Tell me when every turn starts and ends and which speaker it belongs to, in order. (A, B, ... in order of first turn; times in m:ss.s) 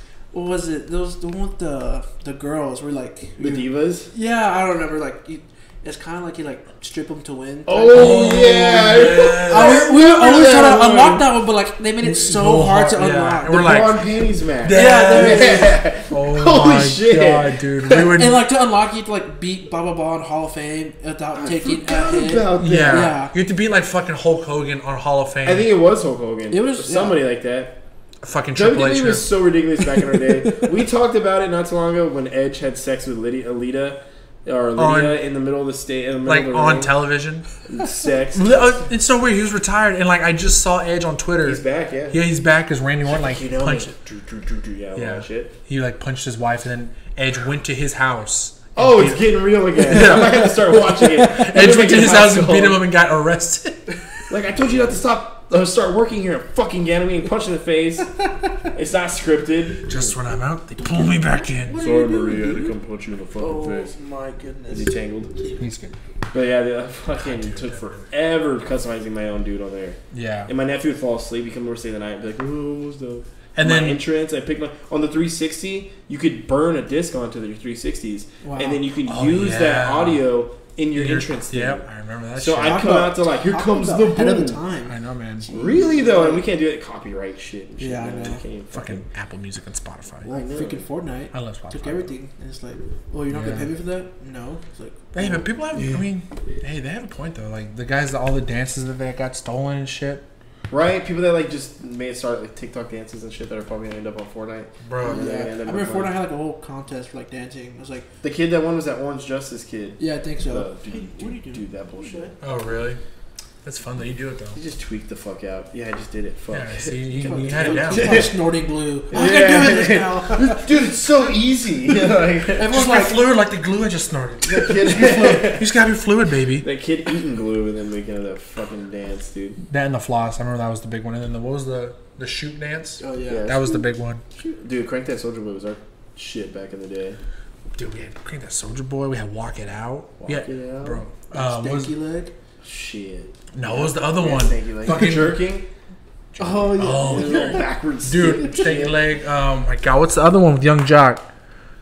0:00.3-0:13.8 A
0:03.4-0:04.1 B
0:07.7-0:11.3 B
0:07.9-0:09.9 C
0:12.0-0:14.0 C
0:13.4-0:18.2 B
0:14.6-0:18.4 C
0:14.7-0:15.8 A
0:18.0-0:23.3 A
0:21.4-0:23.2 B
0:22.6-0:25.7 C
0:25.4-0:27.8 B
0:26.5-0:27.2 A
0:28.2-0:29.3 C
0:28.6-0:37.0 B
0:29.8-0:30.8 A
0:34.8-0:35.2 C
0:36.2-0:37.5 C
0:37.7-0:38.7 B
0:38.3-0:43.9 C
0:41.4-0:42.2 B
0:43.1-0:45.6 B
0:45.0-0:49.3 C
0:48.8-0:52.8 B
0:49.8-0:54.0 C
0:54.3-0:58.1 B
0:58.7-1:00.2 B
0:59.8-1:01.8 C
1:01.4-1:02.8 A
1:01.7-1:03.9 B
1:03.4-1:05.6 A
1:04.7-1:05.3 B
1:05.6-1:05.9 C
1:06.3-1:24.6 B
1:07.2-1:08.1 C
1:10.1-1:10.5 C
1:13.6-1:14.0 C
1:18.4-1:18.8 A
1:19.0-1:20.3 C
1:20.9-1:23.0 C
1:22.6-1:26.5 A
1:24.9-1:25.5 C
1:25.5-1:29.0 B
1:27.8-1:28.4 A
1:28.7-1:30.3 C
1:30.2-1:35.3 A
1:30.3-1:30.8 B
1:31.3-1:32.1 C
1:33.3-1:33.7 C
1:35.1-1:40.3 C
1:40.7-1:46.1 B
1:44.8-1:45.3 C
1:45.0-1:48.1 A
1:48.2-1:52.3 B
1:50.0-1:52.4 A
1:52.4-1:53.0 C
1:53.6-1:54.6 C
1:54.6-1:58.3 B
1:56.5-1:58.3 C
1:57.2-2:00.8 A
1:59.1-2:02.8 B
2:01.9-2:03.2 A
2:02.6-2:06.7 C
2:04.4-2:05.8 B
2:06.6-2:09.6 B
2:09.7-2:14.2 C
2:13.0-2:13.5 A
2:13.3-2:13.8 B
2:14.4-2:17.2 B
2:17.8-2:21.9 C
2:20.2-2:21.0 B
2:21.3-2:22.3 A
2:22.6-2:25.7 B
2:23.5-2:25.4 C
2:26.4-2:31.3 C
2:26.4-2:27.6 A
2:27.0-2:29.0 B